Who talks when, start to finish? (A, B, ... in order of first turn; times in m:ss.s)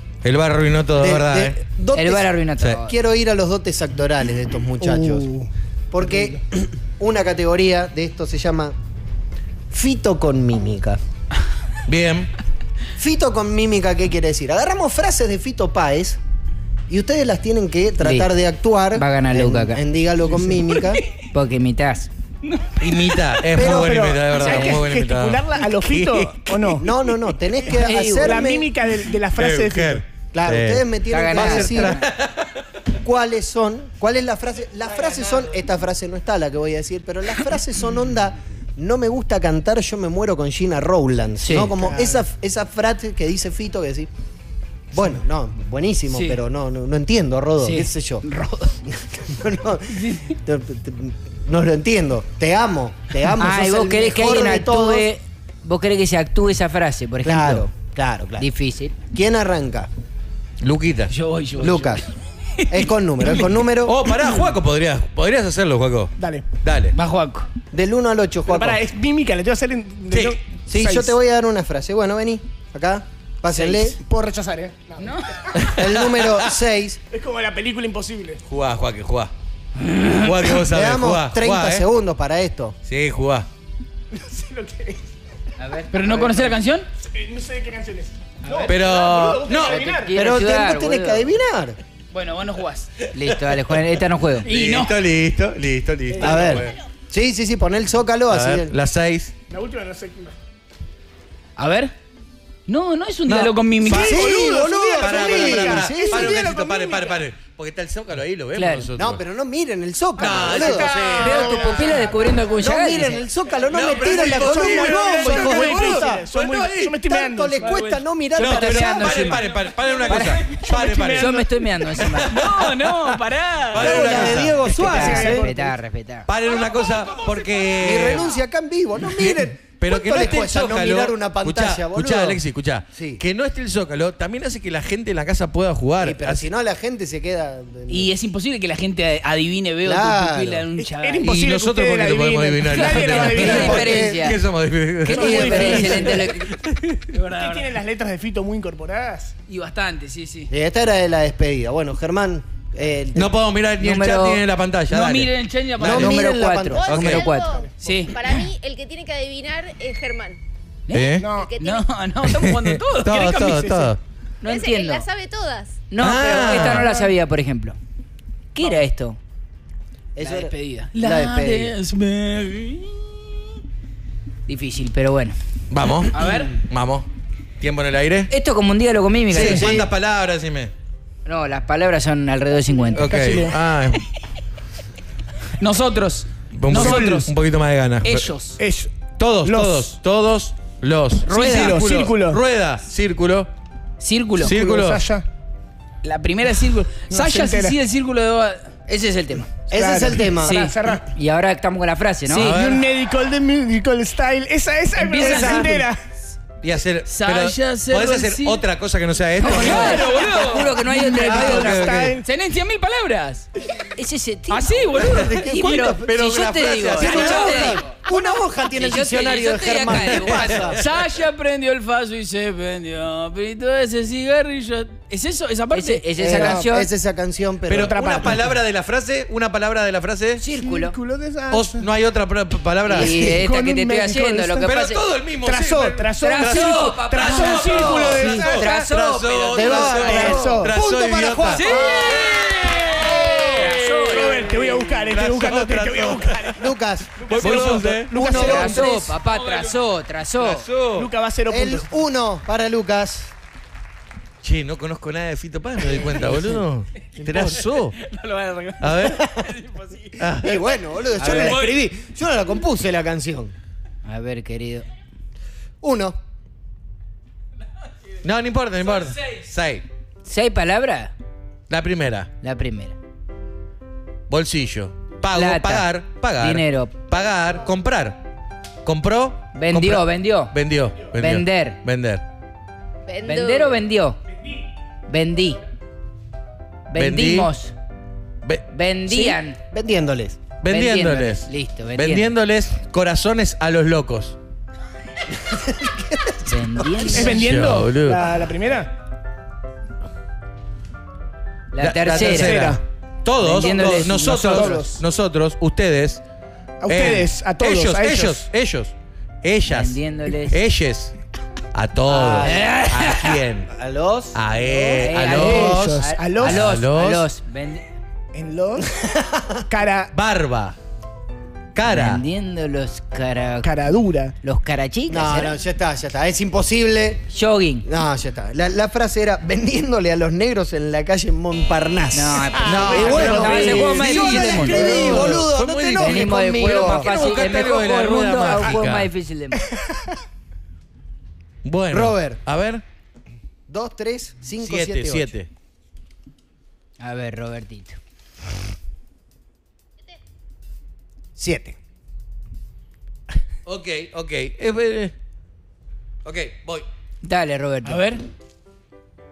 0:00.2-0:01.6 A
0:01.0-0:05.3 B
0:01.9-0:02.9 C
0:04.8-0:05.5 D
0:05.9-0:08.8 B
0:06.0-0:06.4 D
0:09.7-0:11.0 B
0:11.8-0:12.3 A
0:13.0-0:16.2 B
0:16.9-0:21.0 B
0:18.0-0:18.3 C
0:18.9-0:19.8 C
0:20.8-0:21.0 E
0:21.3-0:22.1 C
0:22.4-0:23.4 E
0:22.8-0:26.8 A
0:23.5-0:24.0 B
0:23.6-0:26.9 D
0:24.4-0:24.8 C
0:26.8-0:28.7 B
0:27.6-0:28.6 C
0:27.8-0:30.0 D
0:29.3-0:30.8 A
0:30.3-0:32.0 B
0:31.1-0:32.0 C
0:31.3-0:32.5 A
0:33.0-0:44.1 B
0:41.4-0:41.7 C
0:41.7-0:42.2 D
0:44.9-0:48.2 B
0:46.1-0:46.4 E
0:47.6-0:48.8 E
0:48.8-0:55.1 B
0:49.9-0:50.4 E
0:53.4-0:57.7 C
0:57.2-0:58.5 B
0:58.4-0:58.9 C
0:59.1-0:59.9 B
1:00.6-1:01.1 A
1:01.1-1:03.5 E
1:01.6-1:02.0 B
1:02.7-1:04.0 B
1:03.8-1:06.9 A
1:06.2-1:06.5 D
1:06.9-1:07.5 E
1:07.7-1:08.8 B
1:08.5-1:11.1 D
1:10.1-1:10.4 A
1:10.7-1:14.0 B
1:14.0-1:15.7 D
1:15.0-1:15.5 E
1:15.6-1:16.5 A
1:15.7-1:17.0 B
1:17.1-1:18.4 D
1:18.5-1:19.3 A
1:20.1-1:21.8 A
1:20.5-1:22.8 B
1:22.9-1:23.5 A
1:24.1-1:25.0 D
1:25.6-1:25.9 C
1:25.9-1:26.9 E
1:26.1-1:26.4 B
1:27.0-1:30.1 D
1:28.6-1:29.9 A
1:29.8-1:31.3 C
1:30.1-1:31.8 B
1:32.1-1:32.9 E
1:33.1-1:34.5 C
1:33.2-1:33.9 A
1:34.4-1:36.8 A
1:34.4-1:34.9 E
1:36.1-1:36.6 D
1:36.2-1:38.7 B
1:38.3-1:39.3 A
1:39.5-1:40.4 D
1:41.6-1:41.9 E
1:42.7-1:44.2 E
1:43.3-1:49.2 A
1:43.8-1:47.2 D
1:43.9-1:46.6 B
1:48.5-1:48.9 C
1:48.9-1:50.9 B
1:50.2-1:51.8 A
1:50.2-1:52.5 D
1:51.1-1:53.2 C
1:52.6-1:59.2 B
1:53.7-1:57.0 A
1:53.9-1:58.0 D
1:57.6-1:57.9 E
1:58.4-1:59.5 C
1:58.4-2:01.4 A
1:59.3-2:00.5 E
2:00.1-2:00.5 C
2:00.1-2:02.1 D
2:01.1-2:02.4 C
2:01.9-2:03.1 A
2:02.3-2:04.1 E
2:03.7-2:04.6 A
2:03.7-2:05.5 B
2:03.8-2:05.8 D
2:04.1-2:06.3 C
2:06.3-2:08.3 A
2:07.8-2:13.2 B
2:09.7-2:16.4 A
2:16.0-2:18.1 B
2:17.9-2:21.3 E
2:19.8-2:20.6 B
2:20.8-2:24.0 D
2:21.2-2:27.0 A
2:22.8-2:23.2 E
2:23.2-2:24.4 C
2:23.4-2:24.3 B
2:25.0-2:26.5 C
2:25.1-2:26.3 D
2:25.2-2:26.0 B
2:27.1-2:27.7 E
2:27.1-2:29.3 D
2:29.5-2:30.5 E
2:30.5-2:33.4 B
2:33.1-2:36.1 A
2:33.8-2:34.4 C
2:34.9-2:36.1 E
2:35.8-2:37.1 B
2:35.9-2:37.5 C
2:36.7-2:40.4 F
2:36.8-2:37.2 A
2:37.8-2:38.2 E
2:40.9-2:43.5 E
2:40.9-2:41.3 A
2:41.2-2:41.5 D
2:41.3-2:41.8 F
2:42.3-2:44.0 A
2:43.1-2:43.9 D
2:44.4-2:45.0 C
2:44.4-2:45.9 F
2:45.9-2:47.8 C
2:46.0-2:46.9 A
2:46.0-2:47.1 D
2:48.5-2:49.2 C
2:50.1-2:51.7 B
2:50.2-2:53.2 E
2:54.5-2:55.4 C
2:55.7-2:57.1 A
2:56.1-2:56.6 E
2:57.6-2:58.3 A
2:58.3-2:59.8 C
2:59.3-3:00.7 A
2:59.3-2:59.9 B
3:01.2-3:03.4 C
3:02.9-3:04.0 A
3:03.0-3:03.6 D
3:05.6-3:07.3 E
3:06.5-3:08.3 A
3:06.7-3:07.3 D
3:08.0-3:08.6 E
3:08.6-3:09.9 D
3:09.2-3:13.5 A
3:11.2-3:12.4 D
3:11.3-3:11.9 E
3:14.0-3:14.5 E
3:14.4-3:15.0 A
3:14.4-3:15.2 D
3:16.0-3:19.4 E
3:17.1-3:17.8 D
3:18.9-3:19.4 C
3:19.7-3:20.7 B
3:19.7-3:21.0 D
3:20.4-3:21.0 E
3:21.1-3:22.5 C
3:22.3-3:22.6 E
3:22.3-3:22.8 A
3:22.4-3:26.0 D
3:25.1-3:25.8 B
3:25.1-3:25.6 C
3:25.2-3:25.5 A
3:25.3-3:25.8 E
3:26.6-3:30.1 A
3:27.1-3:28.6 E
3:29.4-3:30.8 E
3:29.4-3:31.8 C
3:30.0-3:32.2 D
3:31.2-3:32.2 A
3:32.2-3:33.5 E
3:33.9-3:40.7 C
3:34.5-3:35.9 E
3:35.2-3:40.8 B
3:36.0-3:37.7 A
3:37.0-3:38.0 E
3:39.9-3:40.6 A
3:40.7-3:46.0 E
3:45.7-3:46.9 C
3:46.2-3:46.7 D
3:46.2-3:48.4 B
3:47.7-3:50.4 A
3:47.7-3:48.5 D
3:50.4-3:51.0 C
3:50.5-3:51.8 D
3:51.5-3:53.3 A
3:52.8-3:53.4 B
3:52.9-3:55.0 C
3:53.1-3:54.8 D
3:54.6-4:01.6 A
3:55.4-3:58.8 D
3:56.2-4:00.4 C
3:58.5-3:58.9 B
3:59.4-4:02.4 B
3:59.9-4:00.7 D
4:01.5-4:03.7 E
4:01.7-4:02.4 D
4:03.3-4:06.6 D
4:03.5-4:04.5 C
4:03.6-4:06.6 A
4:06.6-4:08.9 B
4:07.2-4:08.9 D
4:07.2-4:09.0 A
4:08.2-4:10.7 C
4:09.0-4:09.8 E
4:10.4-4:11.1 A
4:10.9-4:11.9 D
4:11.5-4:13.3 B
4:14.4-4:18.0 A
4:17.2-4:17.6 B
4:17.3-4:20.2 E
4:18.8-4:19.2 A
4:19.0-4:19.5 B
4:20.2-4:20.6 A
4:20.3-4:23.5 B
4:21.2-4:21.6 A
4:21.2-4:21.8 E
4:24.0-4:24.9 C
4:25.8-4:26.2 B
4:28.2-4:29.8 A
4:28.8-4:29.4 E
4:30.2-4:31.1 C
4:31.7-4:32.3 A
4:32.4-4:33.0 C
4:34.3-4:38.2 A
4:35.3-4:36.9 C
4:38.8-4:42.2 A
4:39.5-4:40.5 C
4:41.2-4:41.8 C
4:43.1-4:43.8 F
4:43.2-4:44.2 C
4:45.1-4:45.6 C
4:46.9-4:47.7 C
4:47.0-4:47.5 A
4:48.7-4:49.6 C
4:49.1-4:50.4 B
4:50.6-4:54.4 A
4:50.7-4:52.3 C
4:55.4-4:57.3 B
4:56.4-4:57.7 C
4:57.1-4:58.9 D
4:57.2-4:58.2 A
5:01.7-5:02.7 C
5:01.8-5:06.2 A
5:02.2-5:02.8 D
5:03.4-5:04.8 C
5:04.2-5:05.0 D
5:06.8-5:08.4 D
5:06.9-5:08.9 A
5:09.4-5:11.1 A
5:09.7-5:10.6 C
5:11.7-5:13.7 A
5:12.1-5:12.7 B
5:12.4-5:13.4 C
5:13.7-5:15.5 B
5:14.3-5:17.3 A
5:15.0-5:17.8 C
5:15.3-5:16.7 D
5:18.3-5:18.9 D
5:19.0-5:19.6 B
5:19.7-5:20.1 D
5:20.1-5:20.8 A
5:21.7-5:22.2 A
5:21.9-5:23.7 C
5:23.6-5:24.3 D
5:24.4-5:25.5 C
5:25.1-5:27.2 B
5:27.3-5:27.8 C
5:27.8-5:38.7 B
5:32.1-5:35.4 C
5:32.6-5:34.0 D
5:32.7-5:39.1 A
5:36.0-5:39.6 C
5:39.6-5:40.1 D
5:41.6-5:42.8 A
5:41.9-5:42.4 B
5:43.7-5:45.3 B
5:44.6-5:45.5 A
5:47.0-5:48.0 C
5:51.4-5:51.8 B
5:53.6-5:55.1 A
5:56.2-5:56.8 A
5:57.2-5:58.0 C
5:57.8-5:58.2 E